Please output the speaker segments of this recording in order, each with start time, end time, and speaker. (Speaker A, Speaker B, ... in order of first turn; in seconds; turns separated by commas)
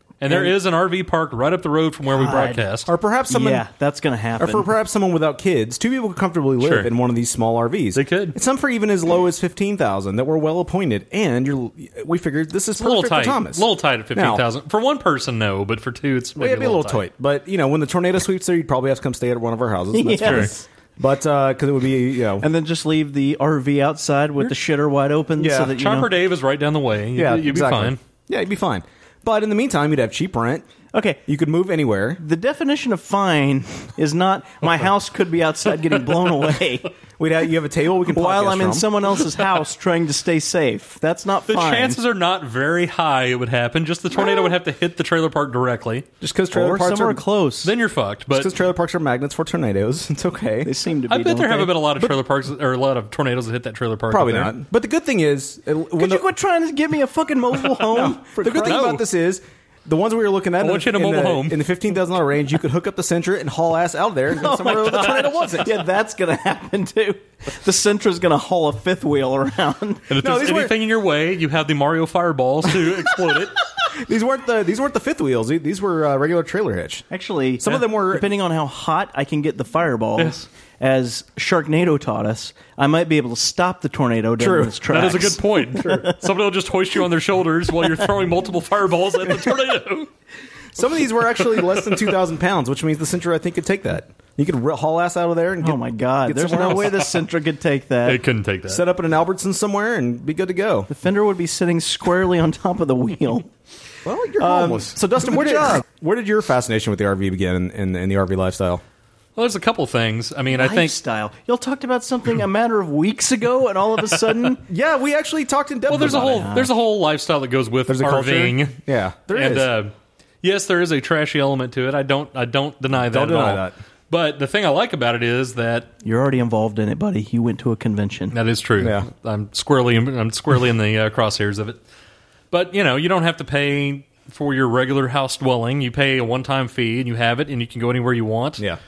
Speaker A: 0.2-2.9, Speaker B: 2.1-2.6, Speaker C: 2.9-3.6, Speaker B: 3.3-4.7, Speaker C: 4.4-14.4, Speaker A: 6.6-6.9, Speaker A: 7.9-8.3, Speaker A: 12.8-17.1, Speaker C: 16.4-22.4, Speaker B: 19.9-20.6, Speaker B: 22.4-26.1, Speaker C: 25.4-25.7, Speaker A: 25.7-28.0, Speaker C: 27.1-30.7, Speaker B: 30.9-31.2, Speaker C: 31.2-32.2, Speaker B: 32.2-36.9, Speaker C: 37.2-38.9, Speaker B: 38.1-42.0, Speaker A: 41.5-46.0, Speaker C: 46.2-47.2, Speaker B: 46.5-47.7, Speaker A: 47.6-48.5, Speaker C: 48.3-50.7, Speaker B: 50.6-52.0, Speaker A: 51.1-54.5, Speaker C: 54.1-56.2, Speaker B: 56.0-58.9, Speaker C: 57.8-65.8, Speaker A: 58.6-59.0, Speaker A: 60.6-61.6, Speaker B: 64.3-70.0, Speaker A: 70.1-73.5, Speaker C: 70.2-70.7, Speaker C: 74.0-77.0, Speaker B: 77.1-86.1, Speaker C: 77.6-78.3, Speaker C: 84.4-84.8, Speaker A: 84.9-90.1, Speaker C: 90.8-97.0, Speaker A: 91.6-92.0, Speaker B: 95.6-98.2, Speaker A: 96.6-97.0, Speaker A: 98.0-98.8, Speaker C: 98.7-100.9, Speaker B: 100.9-103.5, Speaker C: 104.0-108.8, Speaker B: 104.4-105.8, Speaker A: 109.3-111.0, Speaker B: 110.5-114.6, Speaker C: 114.7-116.5, Speaker A: 115.9-118.8, Speaker B: 116.0-116.7, Speaker C: 117.9-119.7, Speaker A: 119.3-125.9, Speaker C: 122.9-123.8, Speaker B: 126.0-128.3, Speaker A: 128.3-131.8, Speaker C: 128.8-129.1, Speaker A: 132.5-138.6